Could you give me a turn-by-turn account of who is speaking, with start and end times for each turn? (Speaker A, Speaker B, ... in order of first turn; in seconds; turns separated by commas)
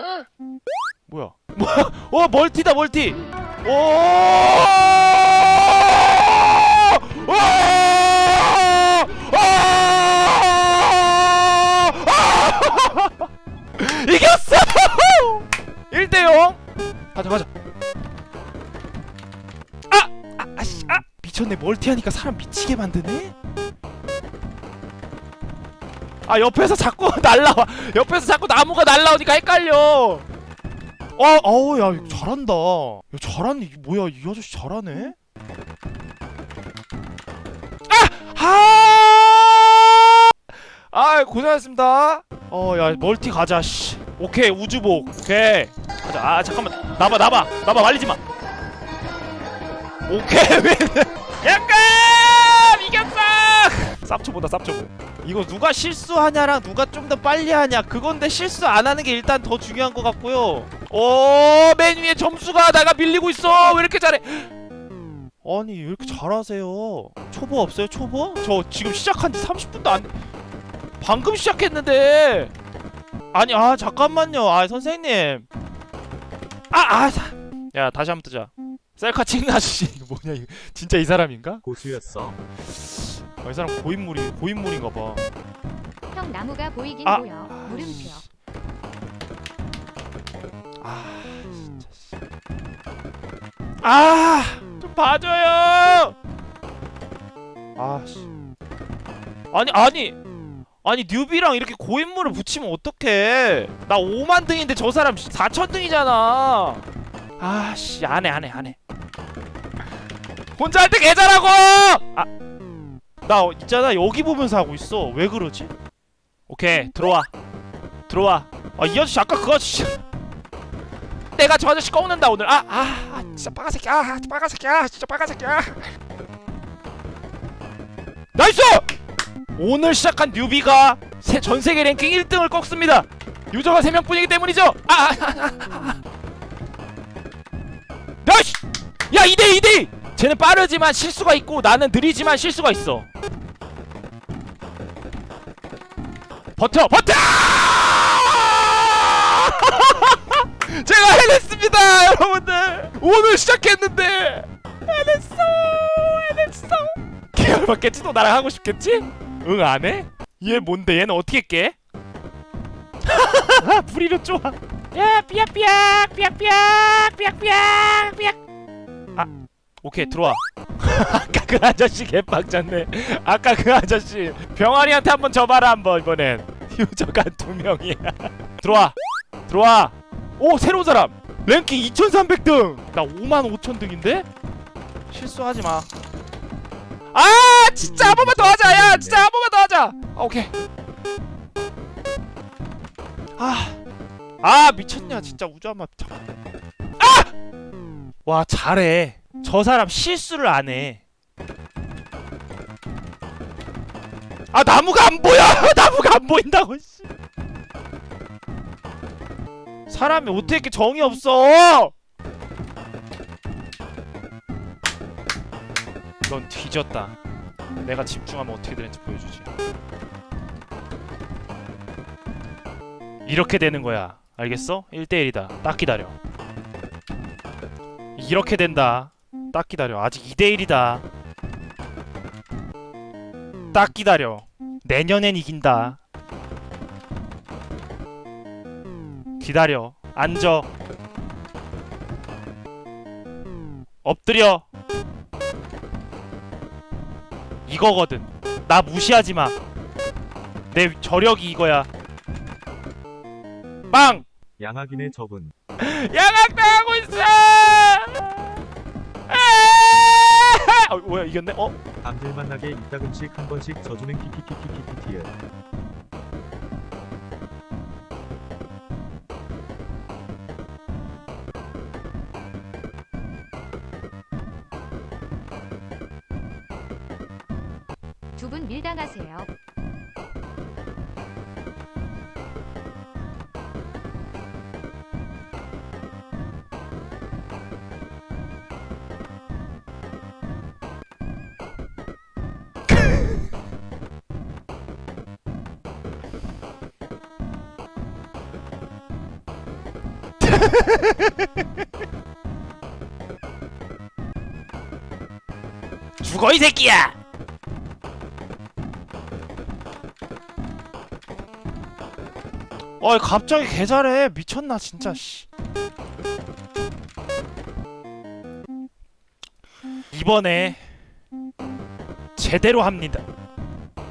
Speaker A: 1.1-16.6, Speaker A: 17.1-17.5, Speaker A: 19.9-23.3, Speaker A: 26.2-30.2, Speaker A: 31.2-35.1, Speaker A: 37.9-48.2, Speaker A: 50.1-64.5, Speaker A: 65.4-70.1, Speaker A: 71.0-72.5, Speaker A: 73.3-75.5, Speaker A: 76.7-81.6, Speaker B: 81.6-82.4, Speaker A: 82.7-85.3, Speaker C: 86.1-88.2, Speaker A: 87.0-88.2, Speaker A: 90.8-92.0, Speaker A: 93.8-96.2, Speaker A: 97.8-98.2, Speaker A: 99.5-100.2, Speaker A: 100.8-106.8, Speaker A: 107.4-108.8, Speaker A: 110.6-112.3, Speaker A: 113.2-115.7, Speaker A: 116.5-117.3, Speaker A: 118.1-120.0, Speaker A: 121.3-125.9, Speaker A: 128.3-128.9, Speaker A: 129.6-136.0, Speaker A: 138.2-143.1, Speaker A: 146.6-161.8, Speaker A: 163.0-168.4, Speaker A: 169.8-178.9, Speaker A: 179.5-184.3, Speaker A: 185.1-185.9, Speaker A: 187.1-190.5, Speaker B: 187.9-189.3, Speaker A: 193.4-193.8, Speaker A: 194.4-196.2, Speaker A: 197.0-197.3, Speaker A: 198.2-201.0, Speaker A: 204.5-207.1, Speaker A: 209.9-211.9, Speaker A: 216.2-217.1, Speaker A: 217.8-219.5, Speaker A: 223.2-226.2, Speaker A: 228.2-231.0, Speaker A: 233.7-236.0, Speaker A: 239.4-240.7, Speaker A: 244.0-244.6, Speaker A: 247.7-249.6, Speaker A: 250.7-251.9, Speaker A: 253.9-254.2, Speaker B: 254.6-255.5, Speaker A: 255.8-258.6, Speaker A: 259.3-261.8, Speaker B: 262.0-265.3, Speaker C: 278.4-279.5, Speaker A: 300.4-301.7, Speaker A: 306.2-307.1, Speaker A: 313.0-315.5, Speaker A: 320.1-320.8, Speaker A: 322.4-323.2